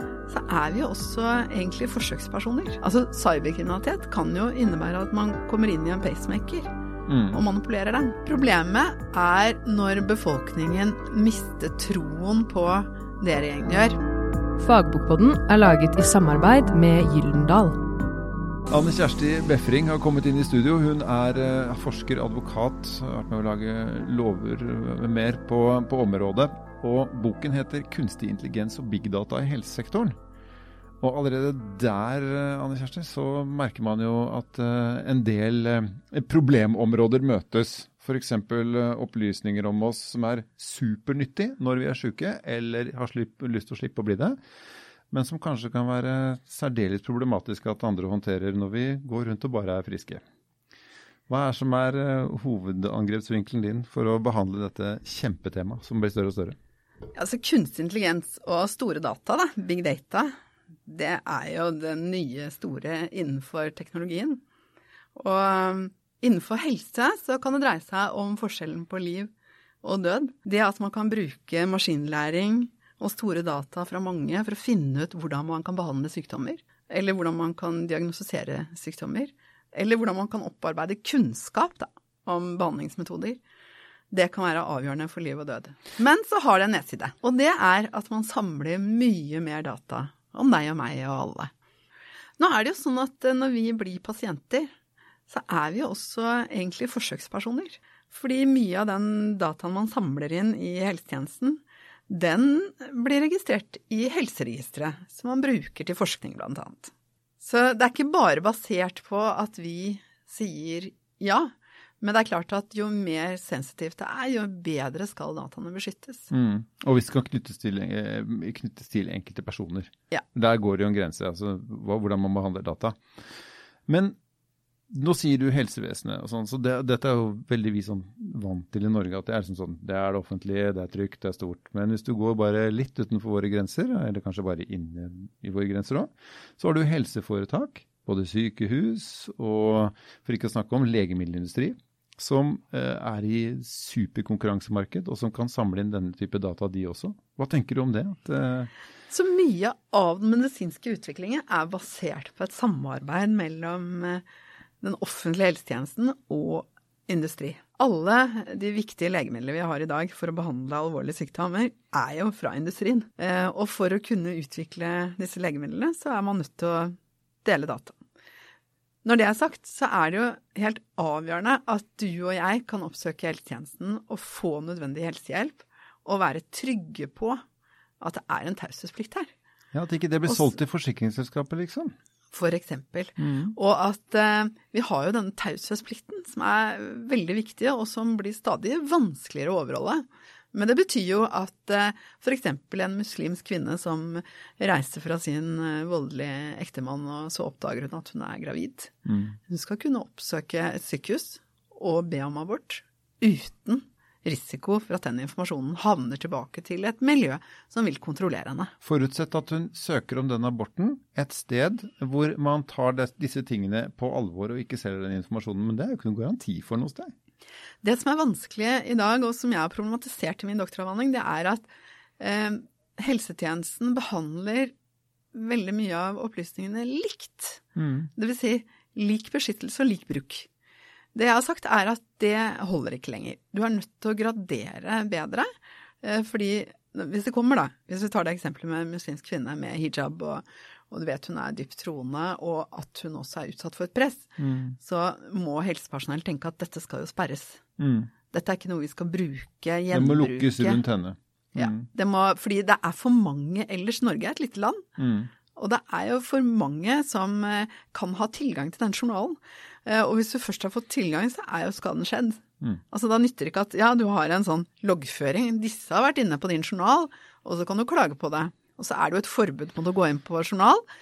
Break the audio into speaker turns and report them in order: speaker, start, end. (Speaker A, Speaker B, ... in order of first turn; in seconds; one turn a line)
Speaker A: 0.3-6.7
Speaker B: 7.1-7.4
Speaker A: 7.3-14.0
Speaker C: 14.6-17.8
Speaker B: 18.7-30.1
Speaker B: 31.0-44.4
Speaker B: 45.1-50.2
Speaker B: 51.3-56.5
Speaker A: 57.1-60.3
Speaker A: 60.9-64.4
Speaker A: 65.1-69.3
Speaker A: 69.8-83.4
Speaker A: 84.1-91.5
Speaker A: 92.4-94.7
Speaker A: 95.3-116.3
Speaker B: 116.3-123.0
Speaker B: 123.9-124.2
Speaker B: 124.9-148.7
Speaker A: 149.1-154.2
Speaker A: 154.8-168.0
Speaker A: 169.0-177.4
Speaker A: 178.0-179.3
Speaker B: 179.7-181.9
Speaker A: 180.3-180.5
Speaker A: 182.3-198.9
Speaker B: 183.2-183.5
Speaker B: 199.1-199.3
Speaker A: 199.5-208.7
Speaker B: 208.8-217.1
Speaker A: 217.8-221.7
Speaker A: 222.2-224.7
Speaker A: 225.3-230.5
Speaker B: 227.8-228.1
Speaker A: 231.1-235.5
Speaker A: 236.0-247.6
Speaker B: 244.4-244.8
Speaker B: 247.8-248.1
Speaker A: 248.3-250.8
Speaker B: 249.9-251.8
Speaker A: 251.5-254.9
Speaker B: 255.0-255.3
Speaker A: 255.5-270.8